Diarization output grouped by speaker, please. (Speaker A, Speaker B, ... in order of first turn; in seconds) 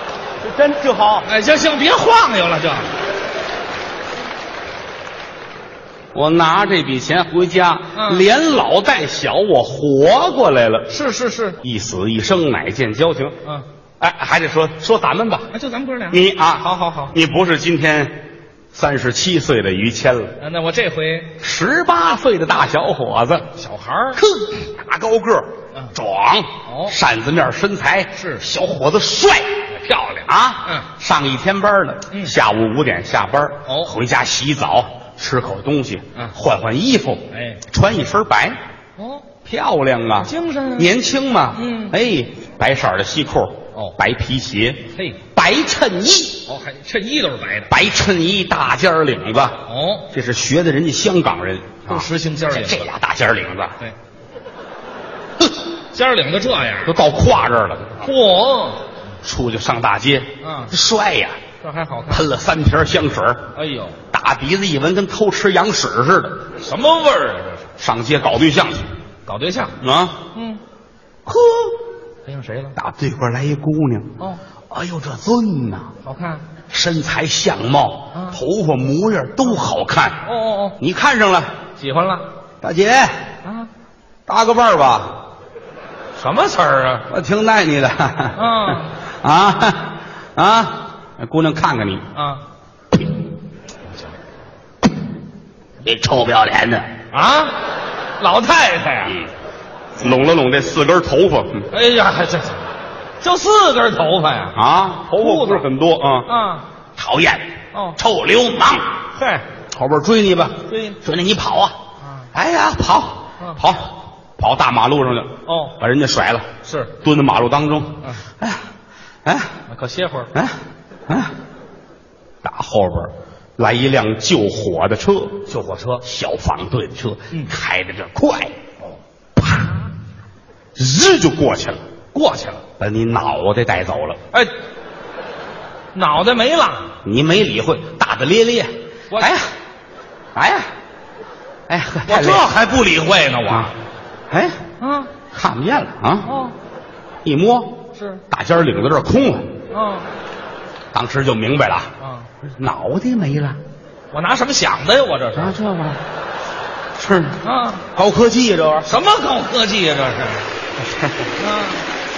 Speaker A: 0.4-1.3, 6.1-10.9, 11.6-13.3, 14.0-15.5, 16.1-18.2, 18.7-20.4, 21.4-23.5, 24.1-38.6, 39.4-46.5, 47.7-53.8, 56.8-58.1, 59.2-61.4, 62.1-63.5, 64.1-66.5, 67.8-68.9, 69.8-70.2, 71.2-71.7, 72.8-74.2, 74.7-75.9, 76.7-80.2, 80.8-81.5, 82.6-83.2, 84.3-85.2, 87.1-88.4, 89.2-92.1, 95.8-96.9, 100.0-101.7, 104.5-106.3, 107.0-108.9, 109.7-111.8, 112.3-118.6, 119.2-119.5, 122.4-125.5, 126.0-128.5, 130.8-131.8, 132.8-134.2, 137.0-139.4, 140.3-140.7, 141.7-142.5, 144.3-144.6, 145.3-146.3, 147.2-149.6, 150.9-151.9, 152.4-153.6, 155.3-156.0, 157.0-157.4, 157.9-158.9
Speaker B: 1.2-2.9, 8.0-8.2, 10.9-11.6, 15.5-17.1, 20.4-21.3, 23.6-24.2, 26.6-26.9, 28.1-28.4, 33.7-33.9, 37.3-37.6, 39.0-39.2, 40.2-40.9, 41.5-41.9, 46.5-47.7, 49.7-50.1, 51.9-52.9, 55.9-56.9, 58.0-58.8, 60.4-60.7, 61.6-62.3, 63.5-64.0, 66.6-67.7, 69.2-69.8, 70.3-70.6, 72.2-72.7, 76.0-76.4, 78.1-78.4, 80.2-80.8, 81.8-82.3, 86.2-87.0, 88.3-88.9, 92.1-92.4, 97.1-97.5, 98.2-99.2, 101.7-102.6, 103.2-104.6, 105.1-105.6, 106.3-106.7, 107.7-108.0, 109.1-109.5, 110.7-111.0, 115.5-115.7, 116.6-116.9, 119.7-120.3, 125.5-126.0, 132.1-132.6, 135.9-136.9, 142.1-143.7, 144.8-145.1, 146.2-146.5, 147.9-148.2, 149.7-150.1, 152.0-152.3, 154.1-155.6, 157.4-157.8, 158.8-160.5, 161.4-161.8